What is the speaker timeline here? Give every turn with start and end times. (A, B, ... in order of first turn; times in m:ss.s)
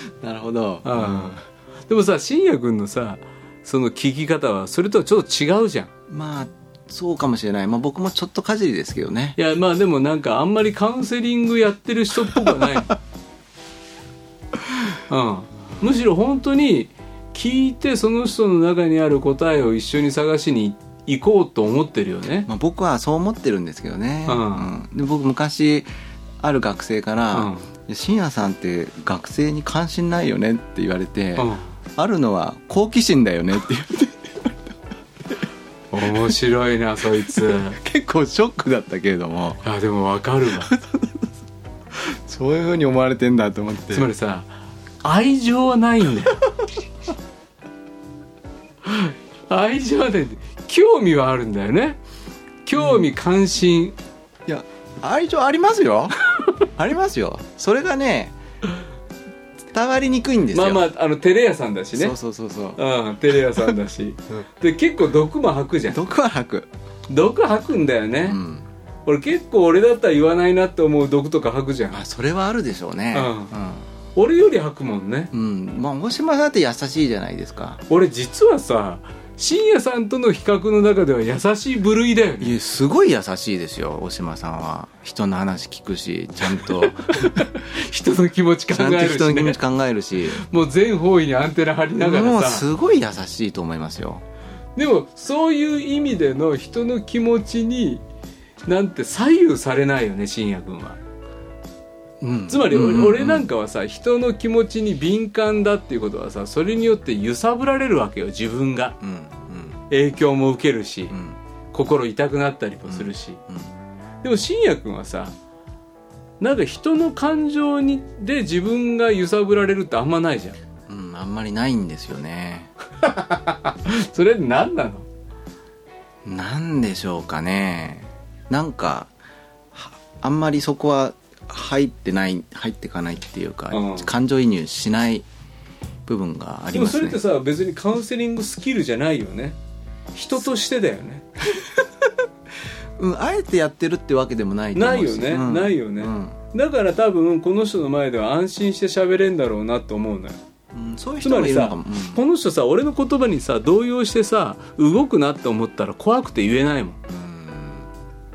0:00.2-0:01.4 A
0:00.8-0:05.9 B
0:06.1-0:09.4 A
0:09.4-0:13.0 B
0:15.1-0:22.5 B
0:22.5-0:25.9 A
0:24.3-0:24.7 B
0:26.4-0:34.5 A
0:27.3-0:27.7 B
0:31.4-0:31.7 B
0:35.9-0:37.8 B
0:37.4-0:39.6 A
0:39.6-0:40.7 B
0:40.6-0:41.3 A
0:41.9-0:44.1 A
0:43.9-0:44.5 B
0:45.0-0:46.4 B
0:48.8-0:52.0 B
0:52.6-0:54.0 B
0:52.8-0:53.0 A
0:54.5-0:58.3 A
0:59.7-1:00.8 A
1:00.5-1:02.1 B
1:01.9-1:02.8 A
1:02.8-1:06.0 B
1:05.9-1:06.7 A
1:07.1-1:08.4 B
1:08.3-1:08.6 A
1:09.0-1:12.0 B
1:11.9-1:13.8 A
1:13.1-1:13.5 B
1:14.1-1:15.3 B
1:15.3-1:17.8 A
1:17.9-1:22.5 B
1:22.4-1:27.5 A
1:26.7-1:29.6 B
1:28.7-1:30.4 A
1:30.3-1:32.6 B
1:32.0-1:34.2 A
1:34.8-1:38.0 B
1:38.6-1:41.0 B
1:42.2-1:43.4 A
1:42.5-1:49.0 B
1:49.0-1:49.8 A
1:49.9-1:51.2 B
1:51.1-1:51.4 A
1:51.7-1:53.4 B
1:52.9-1:53.7 A
1:54.2-1:55.3 B
1:56.4-2:00.6 B
2:00.9-2:02.7 A
2:03.0-2:05.0 B
2:06.2-2:09.1 A
2:09.7-2:15.2 A
2:13.7-2:14.1 B
2:16.0-2:17.2 A
2:16.7-2:19.6 B
2:20.1-2:21.3 B
2:21.5-2:21.8 A
2:23.0-2:26.4 A
2:24.7-2:30.4 B
2:30.7-2:32.2 A
2:31.2-2:37.0 B
2:37.1-2:37.9 A